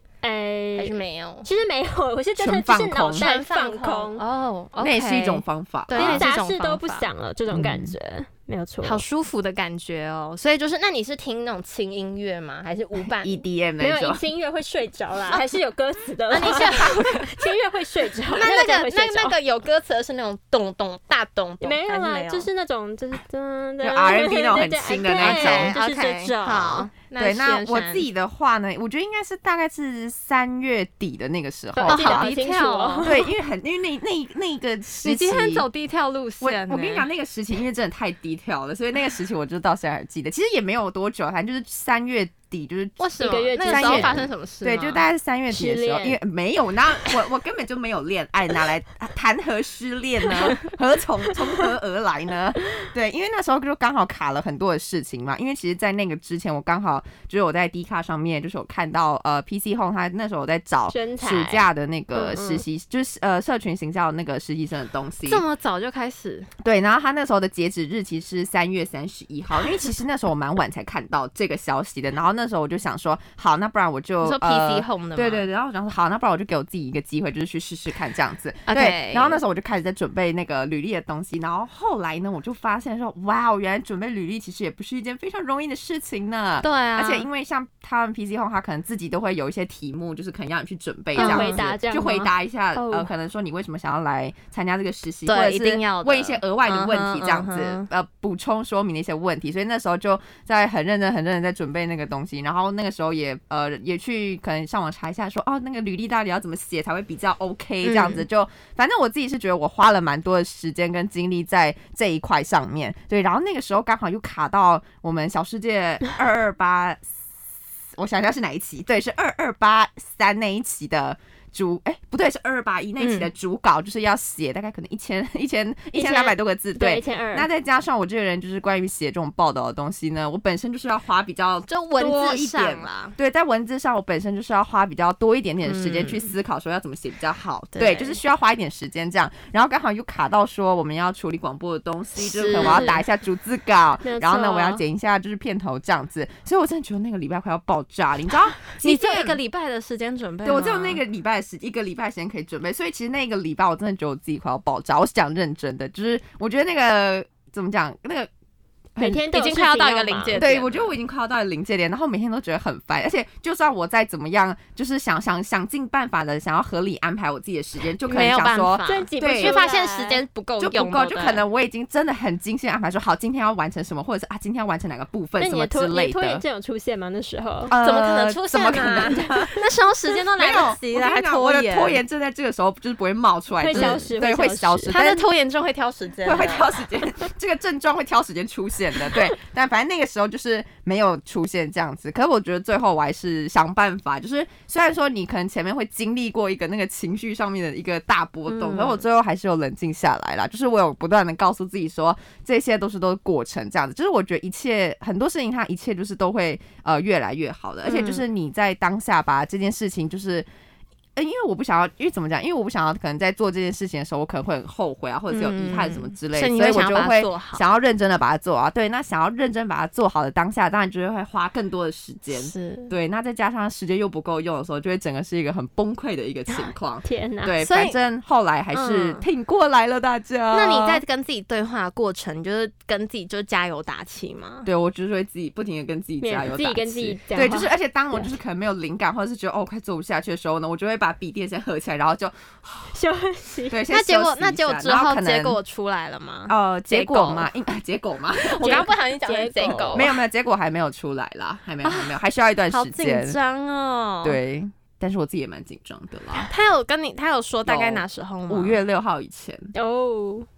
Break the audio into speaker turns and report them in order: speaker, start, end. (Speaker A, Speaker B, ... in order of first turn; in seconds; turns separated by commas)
Speaker A: 0.2-4.2, Speaker B: 0.8-1.5, Speaker C: 2.4-3.2, Speaker B: 3.1-7.1, Speaker C: 4.8-6.2, Speaker A: 5.9-9.0, Speaker C: 7.5-7.9, Speaker B: 8.8-13.4, Speaker C: 13.2-14.2, Speaker A: 13.8-19.4, Speaker B: 16.3-17.4, Speaker B: 18.3-22.5, Speaker A: 21.6-26.9, Speaker C: 23.8-25.7, Speaker B: 25.2-28.0, Speaker C: 27.2-32.3, Speaker A: 31.7-33.3, Speaker B: 31.9-33.1, Speaker C: 33.0-35.6, Speaker B: 35.0-37.0, Speaker C: 36.4-43.0, Speaker B: 43.0-45.0, Speaker A: 43.2-44.2, Speaker C: 43.6-65.4, Speaker A: 45.5-46.2, Speaker A: 60.9-62.6, Speaker B: 65.2-66.5, Speaker C: 66.6-117.0, Speaker B: 74.2-75.5, Speaker B: 78.7-79.4, Speaker B: 86.6-87.3, Speaker A: 91.2-93.1, Speaker B: 91.2-91.7, Speaker B: 95.3-97.9, Speaker B: 107.8-108.2, Speaker C: 118.0-149.4, Speaker B: 123.0-123.3, Speaker A: 126.7-127.5, Speaker B: 131.7-133.2, Speaker B: 135.6-136.3, Speaker B: 137.7-138.2, Speaker B: 142.2-143.0, Speaker A: 142.6-142.9, Speaker A: 144.0-144.8, Speaker B: 148.8-151.0, Speaker C: 150.4-158.3, Speaker C: 158.9-159.2, Speaker A: 159.0-160.5, Speaker B: 159.3-160.9, Speaker C: 160.3-169.6, Speaker B: 168.0-171.4, Speaker A: 168.8-170.2, Speaker C: 170.6-176.4, Speaker A: 175.4-177.7, Speaker C: 177.7-179.6, Speaker B: 177.7-182.0, Speaker A: 179.1-179.3, Speaker C: 180.4-185.3, Speaker A: 183.6-184.9, Speaker B: 183.7-184.0, Speaker B: 184.9-186.7, Speaker C: 186.2-210.4, Speaker B: 198.5-199.0, Speaker B: 207.8-208.2, Speaker C: 211.2-231.0, Speaker B: 215.3-217.7, Speaker B: 222.3-222.9, Speaker A: 227.0-227.6, Speaker B: 227.6-228.0, Speaker B: 228.7-229.2, Speaker B: 230.5-234.7, Speaker C: 234.7-242.9, Speaker A: 236.2-238.3, Speaker A: 242.9-243.8, Speaker C: 243.7-245.6, Speaker B: 243.9-247.5, Speaker C: 246.5-248.9, Speaker B: 248.4-250.1, Speaker A: 248.6-250.1, Speaker C: 249.9-253.4, Speaker B: 251.8-252.1, Speaker B: 252.7-254.4, Speaker C: 254.2-256.5, Speaker B: 256.5-258.8, Speaker C: 257.6-259.7, Speaker A: 259.7-260.5